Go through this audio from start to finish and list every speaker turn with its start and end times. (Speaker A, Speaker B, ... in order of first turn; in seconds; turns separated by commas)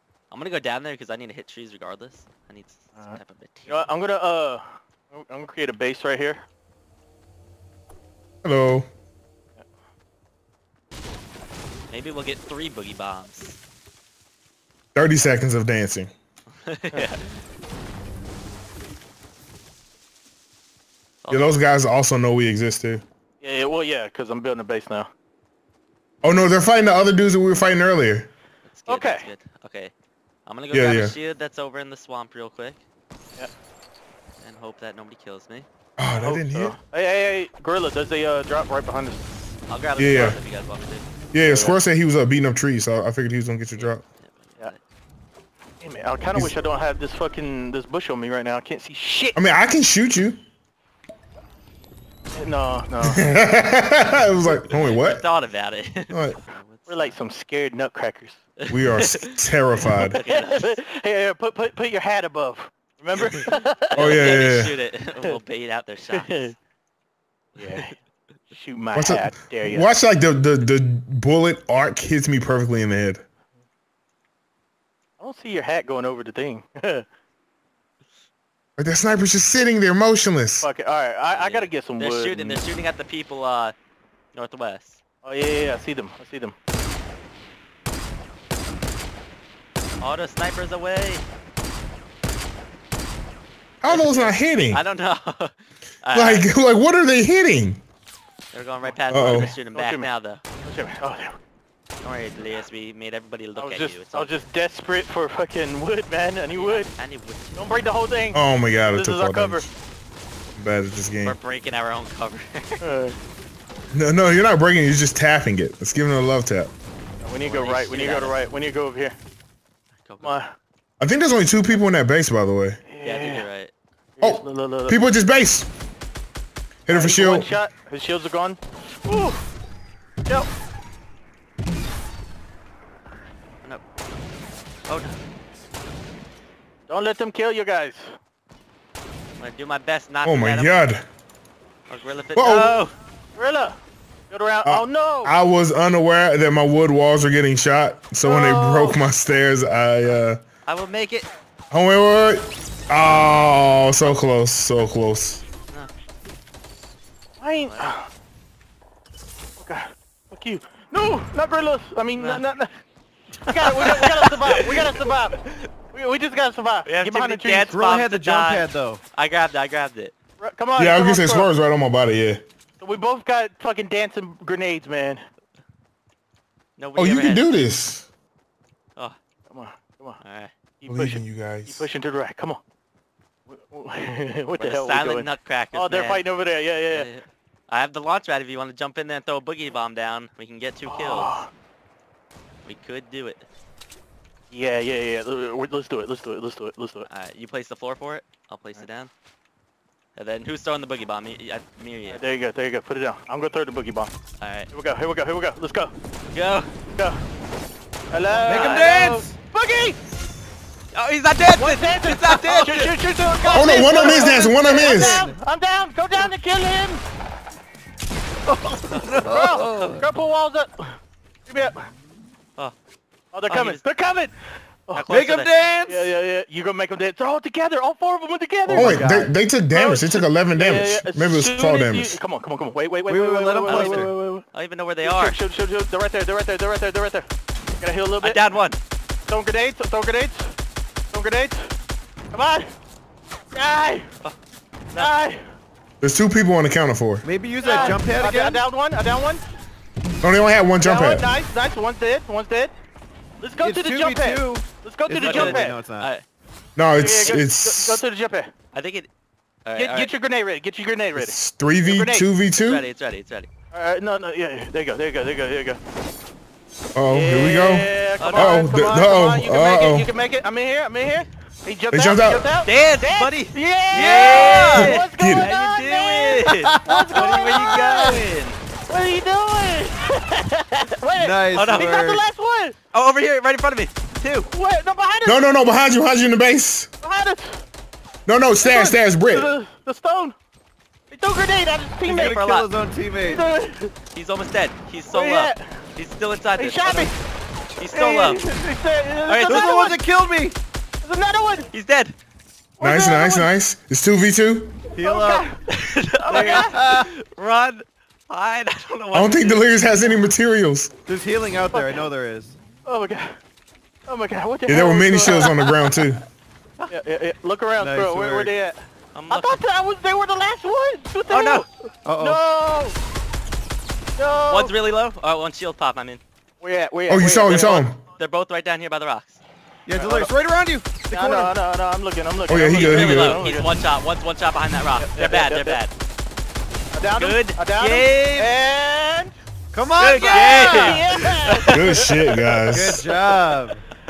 Speaker A: 0.3-4.0, Speaker B: 3.0-6.4, Speaker C: 8.4-8.9, Speaker A: 11.9-13.6, Speaker C: 14.9-16.1, Speaker A: 16.6-17.3, Speaker A: 21.2-21.6, Speaker C: 21.3-23.0, Speaker B: 23.4-25.1, Speaker C: 26.2-28.3, Speaker A: 28.6-29.9, Speaker B: 28.9-29.3, Speaker A: 30.4-32.8, Speaker C: 30.7-31.1, Speaker A: 34.4-35.7, Speaker C: 36.0-36.7, Speaker B: 36.1-39.2, Speaker A: 39.7-41.1, Speaker C: 40.0-40.4, Speaker C: 41.3-44.0, Speaker B: 41.4-41.8, Speaker A: 43.7-44.8, Speaker B: 45.8-49.4, Speaker C: 49.4-50.4, Speaker B: 52.3-53.2, Speaker C: 53.0-55.2, Speaker A: 54.8-57.3, Speaker C: 56.1-56.4, Speaker B: 56.9-58.4, Speaker A: 58.6-60.9, Speaker C: 58.7-60.2, Speaker B: 60.2-64.4, Speaker A: 63.1-66.5, Speaker C: 64.0-64.8, Speaker B: 66.1-66.5, Speaker A: 67.5-68.0, Speaker B: 67.6-67.9, Speaker B: 68.5-69.9, Speaker C: 68.9-73.2, Speaker B: 75.2-77.0, Speaker C: 78.8-80.7, Speaker B: 80.6-82.6, Speaker A: 81.2-83.7, Speaker A: 84.3-85.0, Speaker B: 85.2-86.5, Speaker A: 90.0-91.2, Speaker C: 93.8-94.8, Speaker A: 93.8-96.5, Speaker C: 96.1-97.8, Speaker A: 98.5-100.4, Speaker C: 99.1-99.5, Speaker B: 99.3-100.1, Speaker B: 100.6-101.3, Speaker A: 102.0-104.4, Speaker B: 103.5-106.9, Speaker A: 106.5-108.0, Speaker B: 107.6-108.4, Speaker C: 108.3-109.7, Speaker B: 108.9-109.7, Speaker C: 110.6-111.4, Speaker A: 111.2-113.0, Speaker B: 112.8-113.2, Speaker C: 113.9-116.7, Speaker B: 117.2-119.2, Speaker A: 117.4-118.6, Speaker A: 120.0-120.4, Speaker B: 120.2-120.5, Speaker C: 121.0-122.8, Speaker B: 122.9-123.5, Speaker A: 123.0-123.7, Speaker B: 124.2-125.0, Speaker C: 124.2-125.7, Speaker C: 126.8-127.6, Speaker B: 126.9-129.4, Speaker A: 134.9-135.2, Speaker B: 136.9-138.2, Speaker A: 139.4-140.8, Speaker C: 140.2-141.0, Speaker A: 141.9-142.9, Speaker C: 142.3-142.8, Speaker B: 143.3-143.8, Speaker B: 144.3-145.3, Speaker C: 144.6-150.4, Speaker B: 148.2-149.0, Speaker A: 150.6-151.3, Speaker C: 151.7-155.4, Speaker B: 157.4-158.1, Speaker A: 157.6-158.0, Speaker B: 159.6-162.7, Speaker A: 162.1-162.5, Speaker A: 163.4-165.7, Speaker B: 163.5-167.7, Speaker A: 166.8-170.1, Speaker D: 167.7-169.0, Speaker B: 170.4-171.5, Speaker C: 170.8-172.4, Speaker B: 172.8-175.2, Speaker A: 176.8-177.6, Speaker C: 177.0-178.1, Speaker B: 179.5-180.2, Speaker A: 180.2-180.5, Speaker B: 180.8-182.6, Speaker C: 180.9-181.9, Speaker B: 183.5-187.1, Speaker A: 184.5-191.4, Speaker B: 190.9-191.5, Speaker A: 192.6-193.4, Speaker B: 194.5-197.1, Speaker A: 197.0-199.1, Speaker A: 200.2-202.2, Speaker B: 202.1-204.1, Speaker A: 204.4-204.8, Speaker B: 204.7-205.9, Speaker A: 206.3-206.7, Speaker B: 206.9-207.2, Speaker B: 208.1-210.0, Speaker D: 208.1-209.4, Speaker A: 208.4-209.1, Speaker A: 210.9-213.0, Speaker B: 211.5-217.0, Speaker C: 213.5-215.2, Speaker D: 214.8-215.4, Speaker D: 218.5-220.1, Speaker A: 218.9-219.3, Speaker B: 219.2-221.8, Speaker B: 223.3-224.3, Speaker A: 223.4-224.0, Speaker A: 224.9-225.5, Speaker D: 225.1-226.1, Speaker B: 225.8-228.9, Speaker D: 228.6-229.3, Speaker C: 228.7-232.2, Speaker B: 229.7-234.4, Speaker D: 233.1-234.1, Speaker A: 233.6-235.4, Speaker B: 235.0-237.2, Speaker B: 237.8-238.4, Speaker A: 238.2-238.8, Speaker B: 239.2-240.5, Speaker B: 241.1-241.7, Speaker B: 242.3-242.7, Speaker B: 243.5-244.1, Speaker B: 244.9-245.4, Speaker C: 246.0-247.2, Speaker D: 247.2-248.6, Speaker B: 247.6-249.4, Speaker A: 247.6-247.9, Speaker C: 250.2-251.3, Speaker B: 250.8-252.7, Speaker B: 253.4-255.8, Speaker D: 253.6-256.1, Speaker A: 255.2-256.2, Speaker C: 256.8-258.0, Speaker B: 256.9-258.5, Speaker A: 258.7-259.1, Speaker A: 259.6-260.2, Speaker B: 259.8-262.3, Speaker C: 261.1-262.8, Speaker A: 262.4-263.5, Speaker B: 263.7-265.8, Speaker C: 266.9-270.1, Speaker B: 267.1-278.2, Speaker A: 268.1-268.6, Speaker C: 271.9-272.5, Speaker A: 272.6-278.6, Speaker D: 273.9-274.7, Speaker C: 274.7-275.5, Speaker D: 276.4-278.1, Speaker B: 278.9-282.8, Speaker D: 281.1-282.2, Speaker A: 281.5-282.0, Speaker A: 282.8-284.5, Speaker B: 284.5-285.4, Speaker C: 285.2-286.9, Speaker B: 287.0-287.6, Speaker C: 288.3-289.5, Speaker B: 288.6-290.3, Speaker B: 291.1-292.3, Speaker A: 292.1-292.7, Speaker D: 292.1-293.5, Speaker B: 293.1-293.9, Speaker A: 294.1-297.1, Speaker B: 295.1-295.6, Speaker B: 296.6-297.1, Speaker A: 297.7-298.5, Speaker B: 297.9-300.0, Speaker A: 299.2-299.7, Speaker D: 299.5-300.6, Speaker B: 301.0-301.7, Speaker A: 301.6-302.1, Speaker B: 302.8-303.5, Speaker C: 302.8-304.8, Speaker D: 304.9-305.5, Speaker B: 305.0-305.6, Speaker A: 305.7-309.8, Speaker B: 306.2-306.7, Speaker D: 306.3-307.1, Speaker C: 309.1-310.9, Speaker D: 311.1-312.6, Speaker B: 311.7-312.0, Speaker B: 312.8-313.4, Speaker B: 314.1-315.7, Speaker C: 314.7-316.2, Speaker B: 316.9-318.8, Speaker D: 317.8-318.5, Speaker A: 319.1-319.6, Speaker B: 319.3-322.9, Speaker A: 321.2-321.6, Speaker D: 322.0-322.4, Speaker B: 324.2-324.7, Speaker A: 324.4-326.2, Speaker B: 326.6-327.9, Speaker C: 327.1-328.0, Speaker A: 328.1-329.4, Speaker D: 329.9-331.6, Speaker B: 329.9-330.3, Speaker B: 331.1-333.8, Speaker C: 332.5-333.4, Speaker A: 332.7-335.9, Speaker B: 335.1-335.8, Speaker B: 336.9-339.3, Speaker A: 337.1-338.5, Speaker D: 339.7-341.0, Speaker A: 340.0-342.2, Speaker B: 340.3-341.8, Speaker C: 341.7-343.0, Speaker D: 342.7-343.8